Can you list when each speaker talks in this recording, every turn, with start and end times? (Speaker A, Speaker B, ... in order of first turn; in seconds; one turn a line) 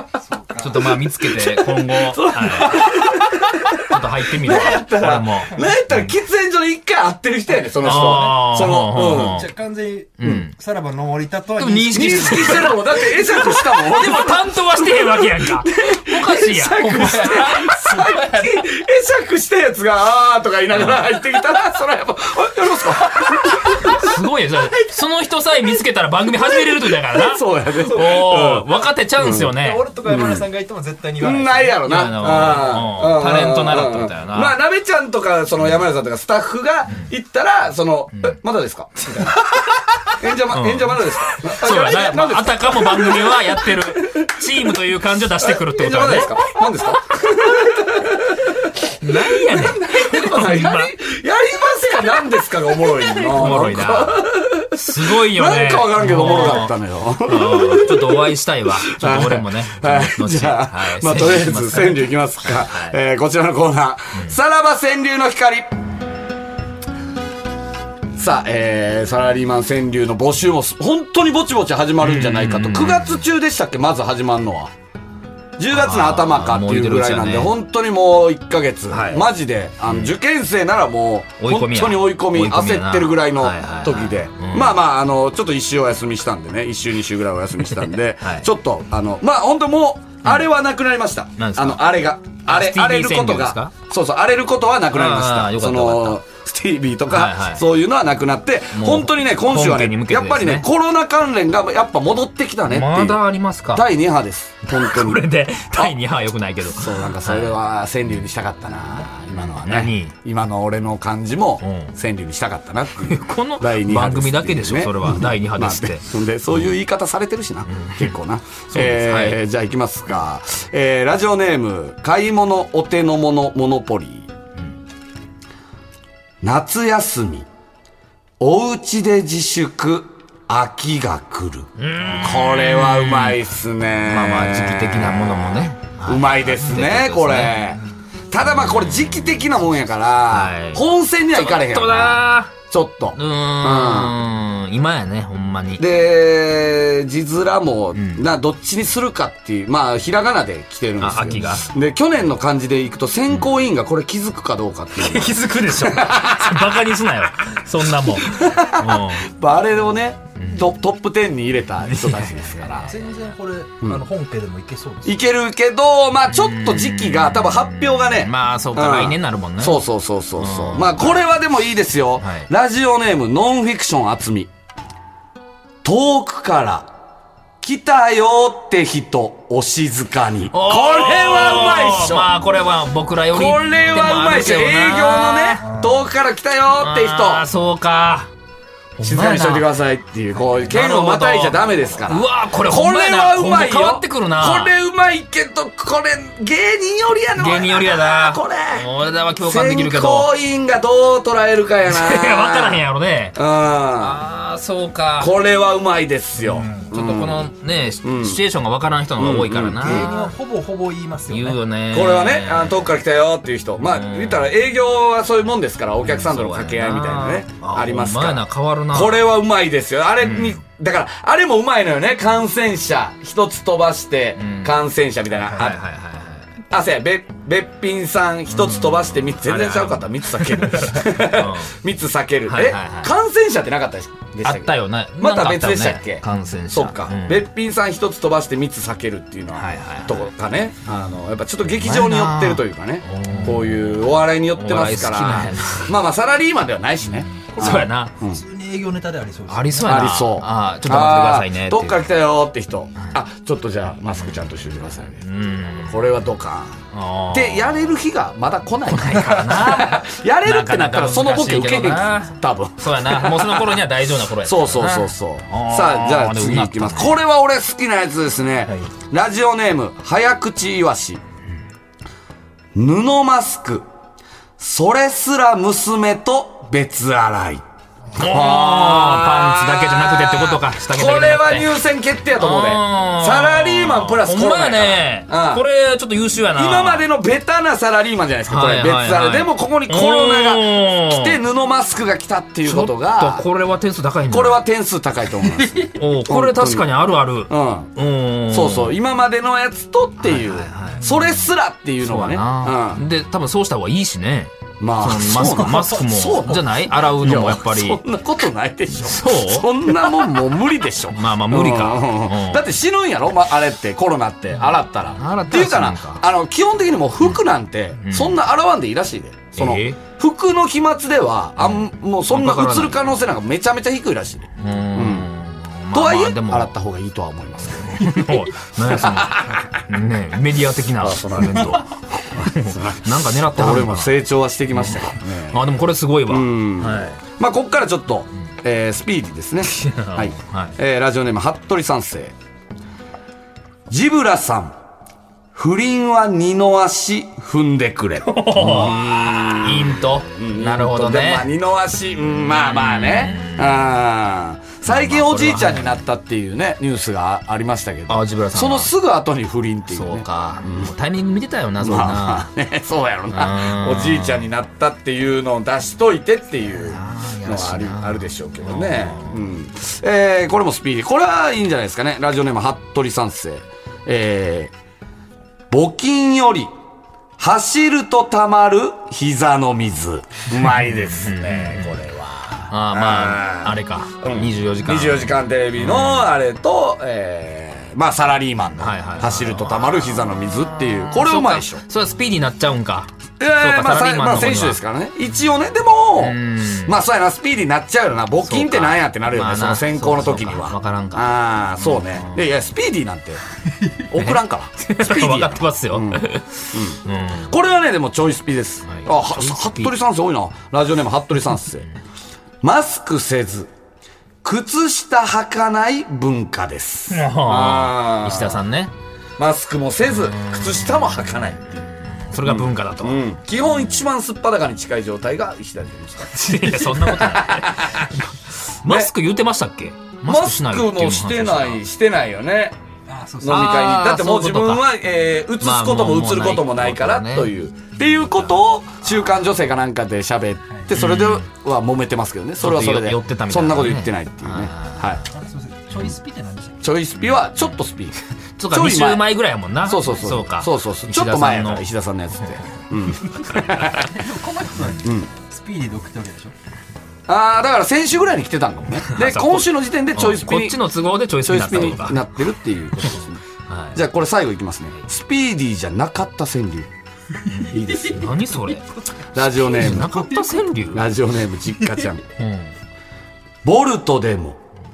Speaker A: 0.3-0.9
Speaker B: 0.6-2.9
Speaker C: 1.3-9.5
Speaker B: 3.8-6.1
Speaker B: 7.8-9.5
Speaker A: 7.8-8.5
Speaker A: 9.1-12.8
Speaker B: 10.2-10.5
Speaker B: 11.6-18.6
Speaker C: 11.9-24.1
Speaker B: 20.7-21.4
Speaker B: 23.8-29.9
Speaker C: 27.1-30.5
Speaker A: 29.4-31.9
Speaker C: 31.2-39.3
Speaker B: 31.8-34.6
Speaker B: 36.9-37.1
Speaker B: 38.1-38.4
Speaker B: 40.1-46.6
Speaker C: 40.1-44.8
Speaker C: 45.4-65.7
Speaker B: 49.0-50.9
Speaker B: 52.9-56.7
Speaker B: 57.3-63.0
Speaker C: 68.2-74.7
Speaker B: 72.0-73.2
Speaker C: 75.6-103.2
Speaker B: 75.7-77.5
Speaker B: 78.9-79.3
Speaker B: 79.8-80.1
Speaker B: 81.4-84.7
Speaker B: 87.6-88.5
Speaker B: 90.2-90.5
Speaker B: 91.4-91.8
Speaker B: 92.5-93.7
Speaker B: 94.9-96.2
Speaker B: 97.1-97.7
Speaker B: 98.7-100.7
Speaker B: 102.7-103.9
Speaker C: 103.7-105.9
Speaker B: 104.7-107.6
Speaker C: 106.7-124.3
Speaker B: 109.3-110.1
Speaker B: 111.6-111.9
Speaker B: 113.0-116.7
Speaker B: 117.7-118.2
Speaker B: 118.7-119.4
Speaker C: 126.4-127.5
Speaker C: 128.4-144.2
Speaker B: 131.8-133.4
Speaker B: 134.0-137.8
Speaker B: 138.7-139.1
Speaker B: 140.3-142.5
Speaker B: 143.2-145.8
Speaker C: 145.8-156.7
Speaker B: 147.9-148.3
Speaker B: 151.0-151.7
Speaker B: 154.9-159.3
Speaker C: 158.1-162.9
Speaker B: 160.4-160.7
Speaker B: 161.8-163.1
Speaker A: 162.8-165.2
Speaker C: 165.0-174.5
Speaker B: 166.3-169.8
Speaker B: 170.4-171.3
Speaker B: 172.2-172.5
Speaker C: 175.8-176.9
Speaker C: 177.6-182.3
Speaker B: 180.5-185.8
Speaker C: 183.3-187.5
Speaker B: 186.8-188.3
Speaker B: 189.0-189.7
Speaker C: 189.0-198.9
Speaker B: 190.4-194.7
Speaker B: 197.3-200.3
Speaker C: 199.4-204.2
Speaker B: 201.9-203.3
Speaker B: 204.0-205.4
Speaker C: 205.2-207.5
Speaker B: 206.4-210.3
Speaker C: 208.0-208.4
Speaker C: 209.2-210.1
Speaker A: 209.8-211.6
Speaker B: 211.3-212.9
Speaker C: 211.9-225.8
Speaker B: 213.8-214.5
Speaker B: 216.0-219.3
Speaker B: 220.2-220.6
Speaker B: 224.4-224.8
Speaker B: 225.3-226.5
Speaker C: 226.7-248.4
Speaker B: 228.5-231.7
Speaker B: 232.5-233.1
Speaker B: 234.4-237.5
Speaker B: 239.5-240.3
Speaker B: 241.7-245.9
Speaker B: 247.2-248.1
Speaker A: 248.2-250.0
Speaker B: 249.5-252.0
Speaker C: 249.8-255.2
Speaker B: 254.1-254.5
Speaker B: 255.0-256.1
Speaker C: 255.8-263.8
Speaker B: 256.9-257.8
Speaker B: 258.9-267.2
Speaker C: 264.4-271.2
Speaker C: 272.7-273.8
Speaker C: 274.6-277.6
Speaker C: 278.1-285.6
Speaker B: 278.2-281.8
Speaker B: 282.4-287.1
Speaker C: 286.5-293.4
Speaker B: 288.5-291.4
Speaker B: 292.6-294.6
Speaker C: 294.3-296.9
Speaker B: 295.8-299.0
Speaker C: 297.5-297.9
Speaker C: 298.5-303.0
Speaker B: 300.2-301.5
Speaker B: 302.0-308.0
Speaker C: 304.8-325.3
Speaker B: 309.0-310.3
Speaker B: 311.1-312.6
Speaker B: 314.5-316.2
Speaker B: 318.0-318.4
Speaker B: 319.5-320.0
Speaker B: 321.6-323.0
Speaker B: 324.6-326.7
Speaker C: 325.9-328.2
Speaker B: 327.6-334.1
Speaker C: 328.9-329.8
Speaker C: 331.0-335.6
Speaker B: 334.7-337.2
Speaker C: 336.3-342.3
Speaker B: 339.7-340.8
Speaker C: 343.9-344.7
Speaker C: 345.5-360.9
Speaker B: 348.2-351.5
Speaker B: 352.5-353.9
Speaker B: 354.8-356.0
Speaker B: 358.1-358.9
Speaker B: 359.9-362.5
Speaker C: 361.8-374.7
Speaker B: 363.3-364.5
Speaker B: 366.8-369.5
Speaker C: 375.7-376.7
Speaker C: 377.4-391.8
Speaker B: 380.9-382.0
Speaker B: 382.7-386.3
Speaker B: 388.8-390.1
Speaker B: 391.1-394.8
Speaker C: 393.4-403.4
Speaker B: 396.2-397.0
Speaker B: 398.4-402.5
Speaker C: 404.0-411.9
Speaker B: 404.2-407.5
Speaker B: 408.8-409.9
Speaker C: 412.6-413.7
Speaker C: 414.4-418.6
Speaker B: 417.1-418.9
Speaker C: 419.4-421.9
Speaker B: 420.4-421.3
Speaker B: 421.9-423.3
Speaker C: 422.4-428.1
Speaker B: 426.4-428.1
Speaker B: 428.8-431.8
Speaker C: 428.9-429.1
Speaker C: 430.2-432.7
Speaker A: 433.1-433.7
Speaker C: 433.4-445.2
Speaker B: 433.5-434.8
Speaker B: 435.6-437.5
Speaker B: 438.2-439.3
Speaker B: 440.9-441.4
Speaker B: 442.6-445.2
Speaker A: 445.3-446.8
Speaker C: 446.8-448.2
Speaker B: 447.2-447.7
Speaker B: 448.6-452.6
Speaker C: 448.7-449.3
Speaker C: 449.8-454.1
Speaker A: 453.9-456.5
Speaker C: 455.0-455.3
Speaker C: 457.3-460.8
Speaker B: 459.1-462.2
Speaker C: 461.4-463.4
Speaker B: 463.1-464.0
Speaker C: 463.9-466.9
Speaker B: 467.5-468.9
Speaker C: 467.7-468.4
Speaker C: 469.3-470.3
Speaker B: 469.6-471.0
Speaker C: 470.9-472.2
Speaker B: 472.4-472.7
Speaker C: 473.6-474.6